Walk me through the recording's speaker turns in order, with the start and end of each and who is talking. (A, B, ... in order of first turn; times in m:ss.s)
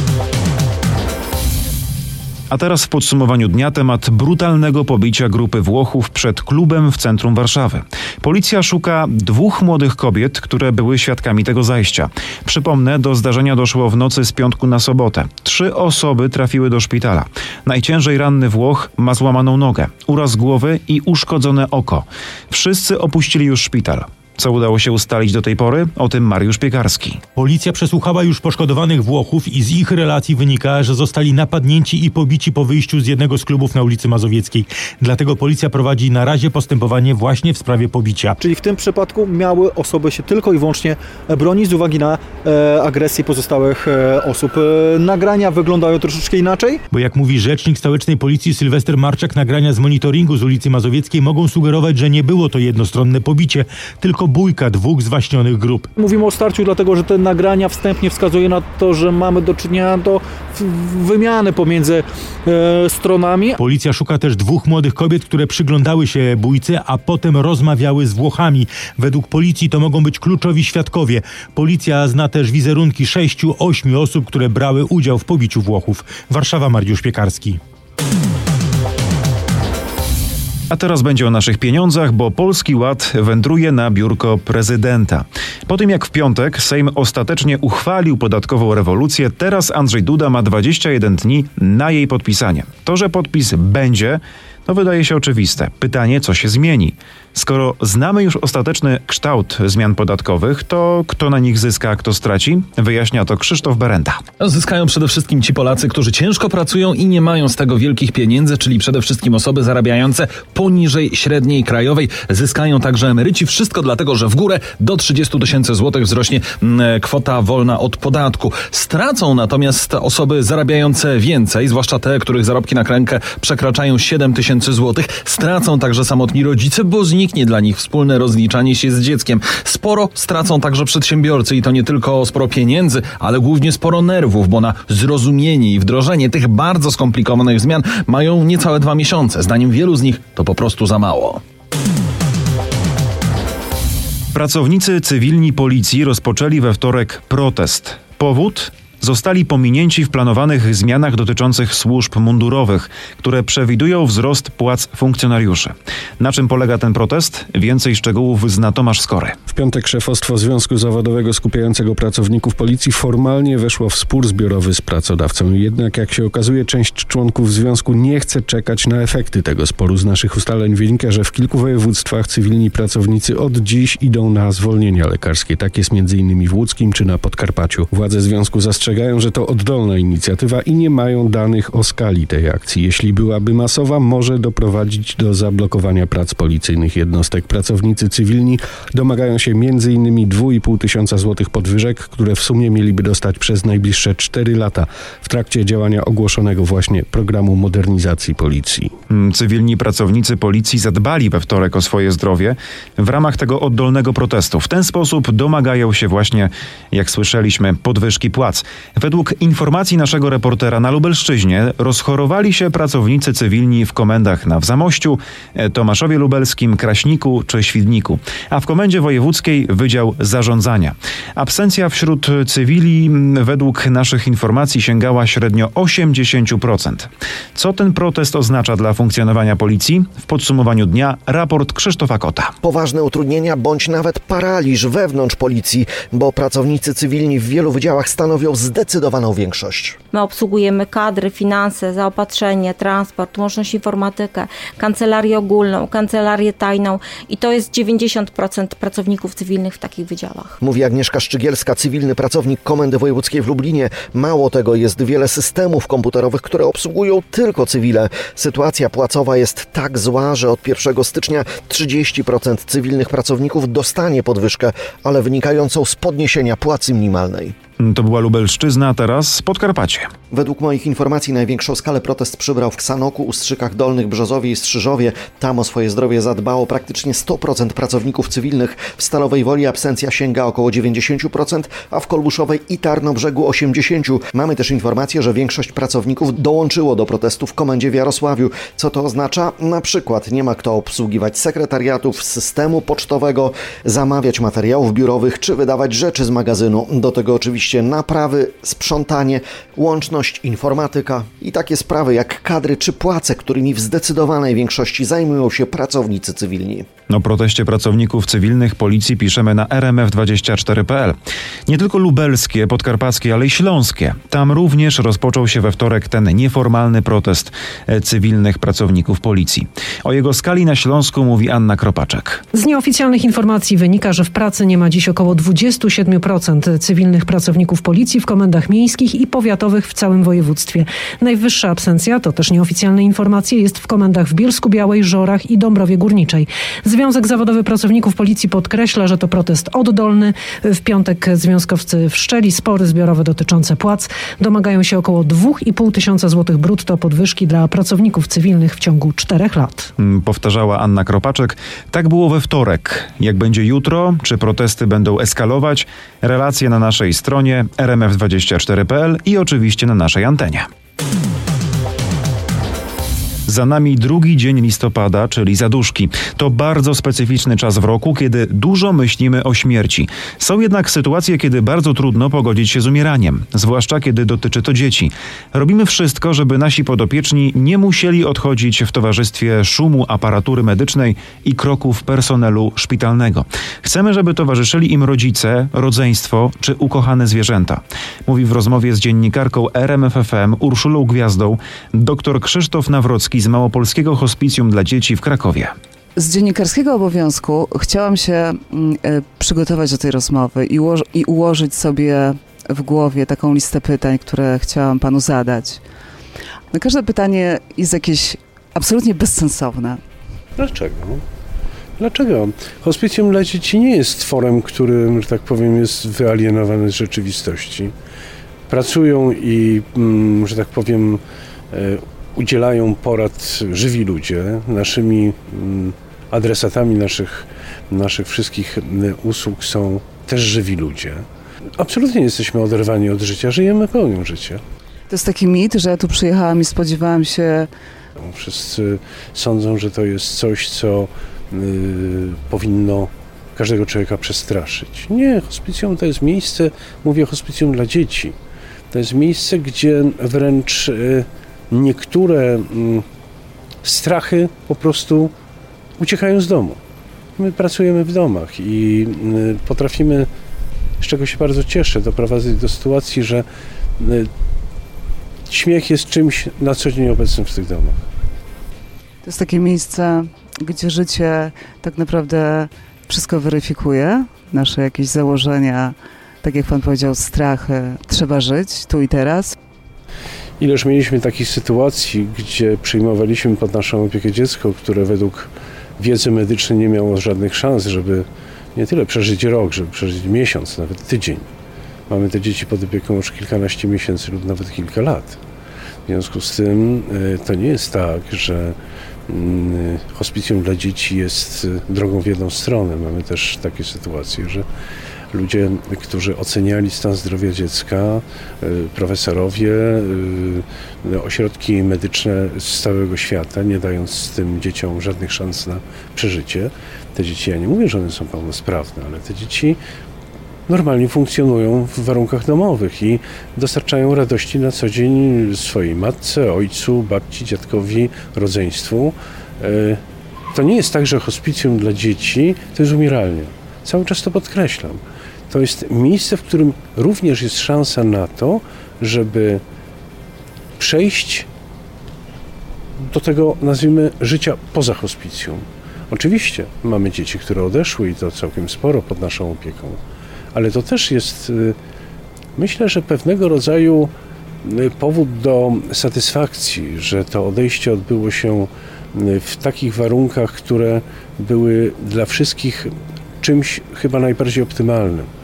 0:02.5-0:27.2 A
0:27.4-0:38.4 B
0:38.4-0:46.8 C
0:46.9-0:55.9 B
0:56.0-1:03.6 C
1:03.6-1:17.6 B
1:20.7-1:44.2 A
1:44.4-2:21.4 D
2:24.3-2:39.4 A
2:39.5-3:18.9 E
3:19.1-3:52.5 A
3:52.6-4:00.0 F
4:00.1-4:10.6 G
4:10.6-4:27.5 F
4:27.8-4:30.1 A
4:30.3-5:06.9 F
5:07.1-5:11.2 A
5:11.7-5:22.4 A
5:22.5-5:49.9 H
5:50.0-6:00.7 A
6:03.5-6:35.7 A
6:36.2-6:45.8 I
6:46.7-6:50.0 I
6:50.6-6:51.2 J
6:52.0-6:57.9 J
6:58.7-7:11.2 J
7:11.8-7:14.6 J
7:15.1-7:17.7 I
7:18.2-7:28.4 J
7:28.9-7:33.0 J
7:33.8-7:35.3 J
7:36.0-7:36.8 J
7:37.4-7:40.3 J
7:41.0-7:43.5 J
7:44.0-7:44.3 J
7:45.5-7:48.0 J
7:49.2-7:59.6 I
8:00.6-8:11.5 J
8:12.1-8:15.4 J
8:16.1-8:18.8 J
8:19.3-8:24.7 J
8:25.3-8:39.8 J
8:40.7-8:50.0 J
8:50.5-8:59.6 J
9:00.8-9:01.5 J
9:03.0-9:10.0 J
9:10.5-9:11.8 J
9:12.6-9:14.1 J
9:14.6-9:25.3 J